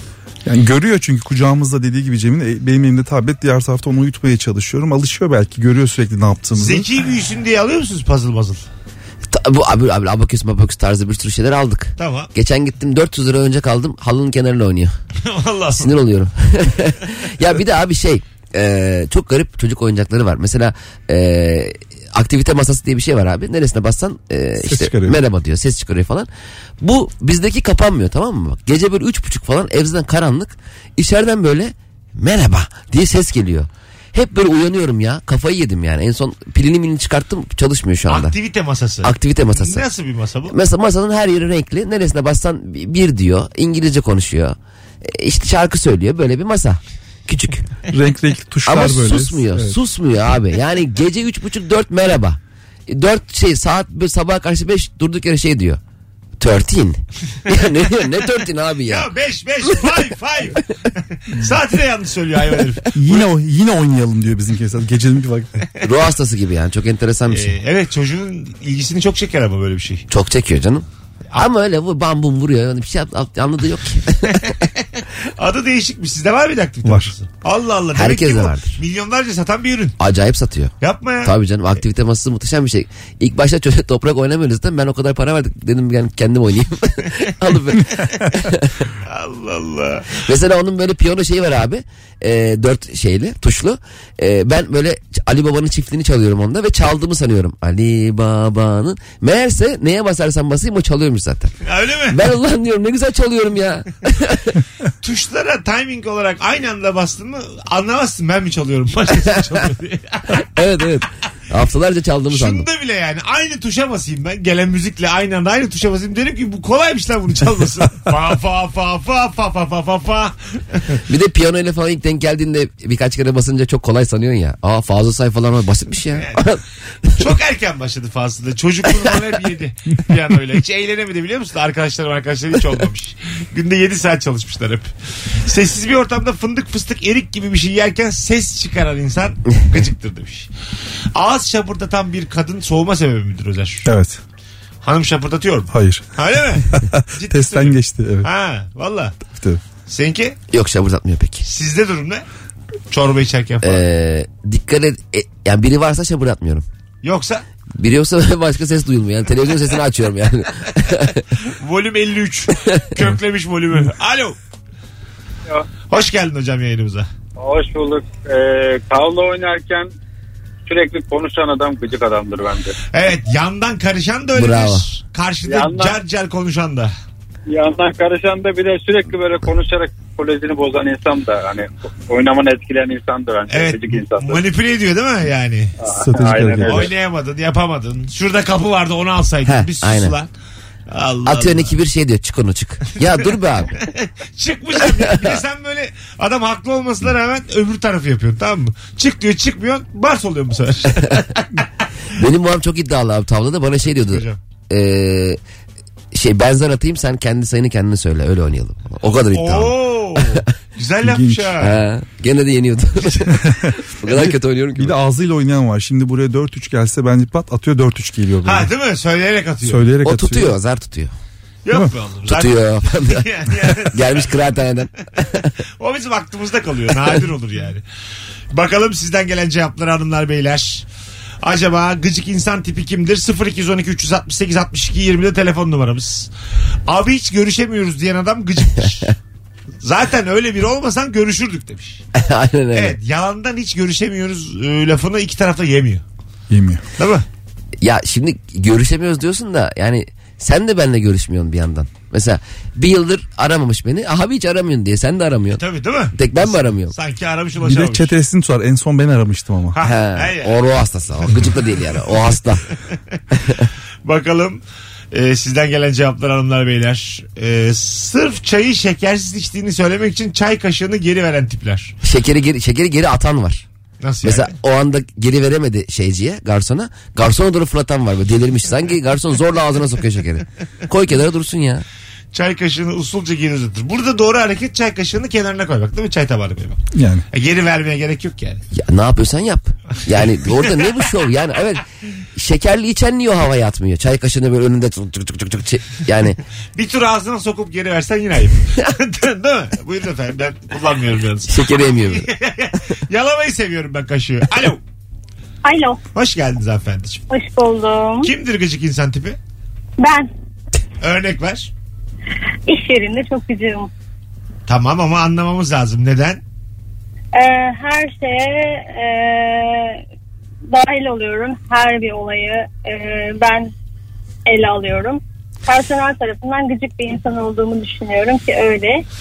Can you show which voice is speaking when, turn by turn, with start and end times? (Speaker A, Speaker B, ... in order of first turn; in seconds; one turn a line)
Speaker A: 0.4-6.9
Speaker B: 6.5-8.6
Speaker C: 9.3-14.9
Speaker B: 12.0-12.3
Speaker B: 15.2-16.0
Speaker C: 15.8-26.3
Speaker A: 24.6-25.2
Speaker C: 26.8-38.3
Speaker B: 38.1-40.5
Speaker C: 39.0-39.9
Speaker C: 40.5-47.8
Speaker A: 47.9-49.8
Speaker C: 48.6-55.8
Speaker C: 56.4-59.1
Speaker B: 58.9-63.2
Speaker A: 62.9-65.6
Speaker C: 65.8-67.5
Speaker B: 67.3-70.0
Speaker C: 70.1-74.6
Speaker B: 74.4-80.0
Speaker A: 76.8-77.1
Speaker C: 77.9-78.8
Speaker C: 80.0-80.7
Speaker B: 80.8-81.3
Speaker C: 81.2-88.9
Speaker B: 89.0-90.2
Speaker C: 90.2-101.5
Speaker B: 101.6-102.3
Speaker C: 102.1-104.6
Speaker B: 105.0-110.4
Speaker C: 110.3-112.7
Speaker B: 112.3-121.0
Speaker C: 121.1-126.6
Speaker B: 126.1-126.4
Speaker B: 127.1-140.5
Speaker B: 141.1-143.9
Speaker A: 143.8-144.2
Speaker B: 144.8-149.1
Speaker A: 145.7-146.1
Speaker A: 146.7-148.3
Speaker A: 149.3-149.6
Speaker B: 149.9-150.4
Speaker C: 150.5-151.4
Speaker B: 151.4-152.2
Speaker B: 152.9-153.8
Speaker C: 153.6-156.7
Speaker B: 157.0-157.4
Speaker C: 157.8-161.3
Speaker B: 161.5-164.4
Speaker B: 165.9-167.1
Speaker D: 167.4-169.9
Speaker D: 170.7-172.7
Speaker B: 172.9-176.9
Speaker C: 174.3-174.8
Speaker D: 175.4-176.0
Speaker D: 177.5-184.4
Speaker B: 183.5-185.8
Speaker D: 185.8-186.8
Speaker A: 185.9-186.9
Speaker B: 186.6-190.3
Speaker C: 189.4-190.1
Speaker B: 190.9-191.7
Speaker C: 191.2-193.7
Speaker B: 193.1-201.6
Speaker C: 202.1-205.4
Speaker B: 203.9-204.4
Speaker C: 206.1-210.4
Speaker B: 209.0-211.8
Speaker A: 211.0-211.7
Speaker C: 211.6-214.9
Speaker A: 213.3-218.7
Speaker B: 218.4-219.9
Speaker A: 219.6-220.6
Speaker C: 220.0-221.1
Speaker B: 221.6-224.5
Speaker C: 222.3-225.5
Speaker B: 225.8-227.8
Speaker B: 228.5-230.8
Speaker B: 231.4-236.3
Speaker B: 236.9-239.1
Speaker B: 239.8-242.0
Speaker C: 242.2-242.9
Speaker B: 242.7-246.0
Speaker A: 246.5-246.8
Speaker B: 247.0-247.2
Speaker C: 247.8-255.6
Speaker B: 255.5-258.1
Speaker C: 256.1-256.9
Speaker A: 257.6-259.8
Speaker B: 259.7-260.6
Speaker C: 259.8-262.6
Speaker B: 261.3-262.1
Speaker C: 263.4-263.6
Speaker B: 264.0-271.9
Speaker C: 272.0-273.6
Speaker B: 274.0-274.5
Speaker C: 274.2-281.8
Speaker B: 282.3-288.6
Speaker A: 286.9-287.2
Speaker C: 288.7-291.8
Speaker B: 290.4-290.8
Speaker C: 292.3-296.4
Speaker B: 296.7-304.8
Speaker C: 301.5-302.3
Speaker E: 305.6-306.0
Speaker B: 306.1-307.2
Speaker E: 307.3-308.3
Speaker B: 308.2-309.4
Speaker E: 310.0-310.3
Speaker B: 311.0-311.7
Speaker E: 312.7-313.9
Speaker B: 314.7-316.4
Speaker E: 317.3-320.0
Speaker E: 320.7-323.7
Speaker E: 324.4-329.0